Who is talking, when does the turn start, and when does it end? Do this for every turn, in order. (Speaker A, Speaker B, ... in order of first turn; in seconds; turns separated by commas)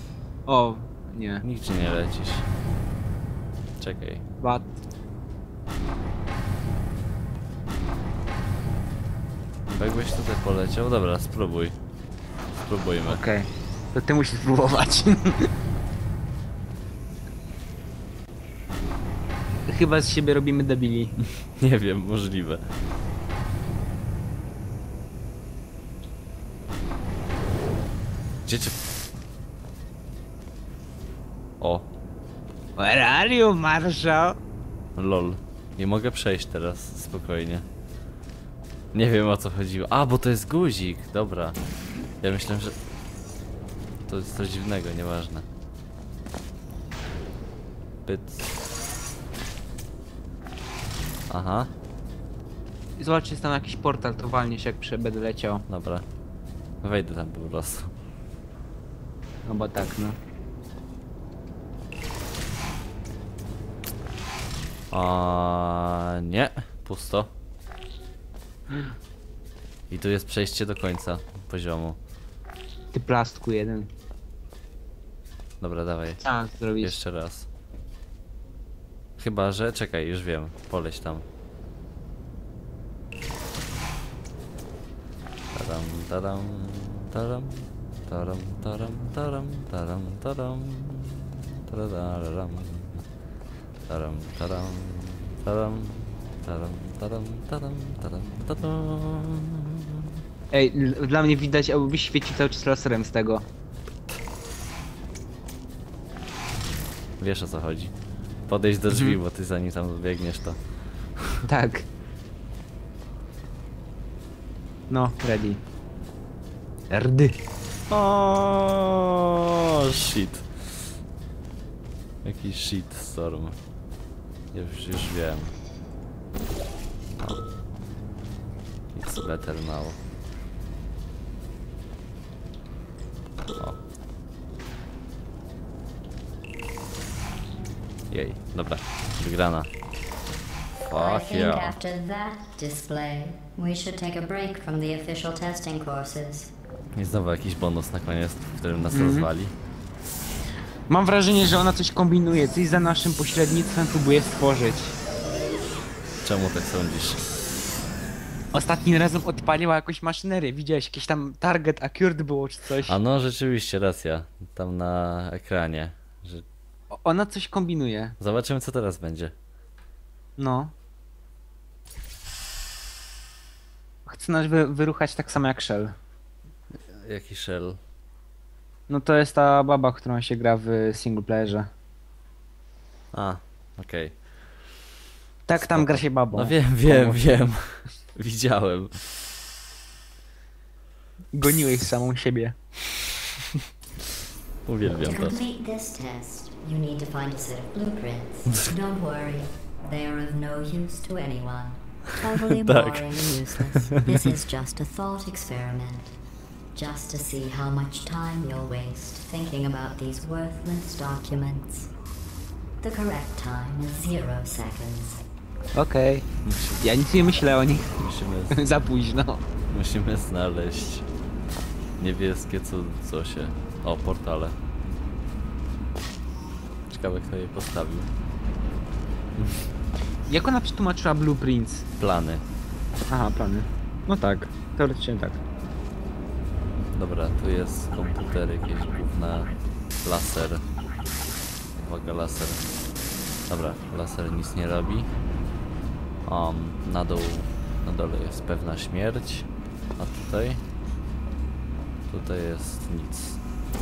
Speaker A: 0.5-1.4, Speaker B: 1.4-2.5, Speaker B: 3.8-4.2, Speaker A: 4.4-4.7, Speaker B: 9.7-11.8, Speaker B: 12.6-13.2, Speaker A: 13.1-15.5, Speaker A: 19.7-21.1, Speaker B: 21.5-22.6, Speaker B: 28.4-28.8, Speaker B: 31.6-31.9, Speaker A: 32.8-34.4, Speaker B: 35.0-37.6, Speaker B: 38.9-41.6, Speaker B: 42.2-42.8, Speaker B: 44.0-45.5, Speaker B: 48.0-48.5, Speaker B: 51.3-51.7, Speaker A: 53.0-55.6, Speaker B: 55.7-56.0, Speaker B: 56.8-57.9, Speaker A: 59.5-60.2, Speaker B: 64.9-67.3, Speaker B: 69.9-72.0, Speaker A: 72.9-73.9, Speaker B: 75.6-76.2, Speaker A: 76.2-76.9, Speaker B: 76.8-77.5, Speaker B: 79.2-81.2, Speaker B: 85.5-93.0, Speaker B: 93.9-100.2, Speaker A: 100.5-103.5, Speaker B: 107.2-107.9, Speaker B: 108.5-110.6, Speaker A: 108.9-109.2, Speaker B: 111.2-111.5, Speaker A: 111.5-111.8, Speaker A: 114.9-115.6, Speaker A: 116.9-117.4, Speaker B: 117.9-120.9, Speaker B: 122.2-123.6, Speaker B: 124.5-125.5, Speaker B: 128.9-130.0, Speaker B: 138.1-139.7, Speaker B: 140.8-141.8, Speaker C: 140.9-146.5, Speaker B: 146.9-149.5, Speaker A: 148.9-149.3, Speaker A: 150.9-155.0, Speaker B: 156.2-157.2, Speaker A: 158.5-162.9, Speaker B: 162.8-166.4, Speaker A: 166.9-168.2, Speaker B: 168.2-169.3, Speaker A: 170.4-170.7, Speaker A: 174.1-175.9, Speaker B: 176.9-177.8, Speaker A: 178.9-181.7, Speaker B: 183.1-184.2, Speaker A: 185.5-187.2, Speaker B: 185.6-189.3, Speaker A: 191.3-192.6, Speaker B: 194.7-195.3, Speaker C: 194.9-206.2, Speaker B: 202.3-204.3, Speaker C: 206.7-211.9, Speaker C: 212.8-215.2, Speaker A: 215.7-216.3, Speaker B: 216.4-216.8, Speaker A: 216.8-219.4, Speaker B: 218.0-218.7, Speaker B: 219.7-221.1, Speaker B: 222.0-225.0, Speaker B: 226.9-228.1, Speaker B: 229.4-229.6, Speaker A: 230.3-231.9, Speaker B: 232.0-232.4, Speaker A: 233.1-235.4, Speaker B: 236.9-239.5, Speaker B: 240.0-240.6, Speaker B: 241.8-242.6, Speaker B: 243.5-245.1, Speaker B: 246.2-250.6, Speaker B: 252.1-253.4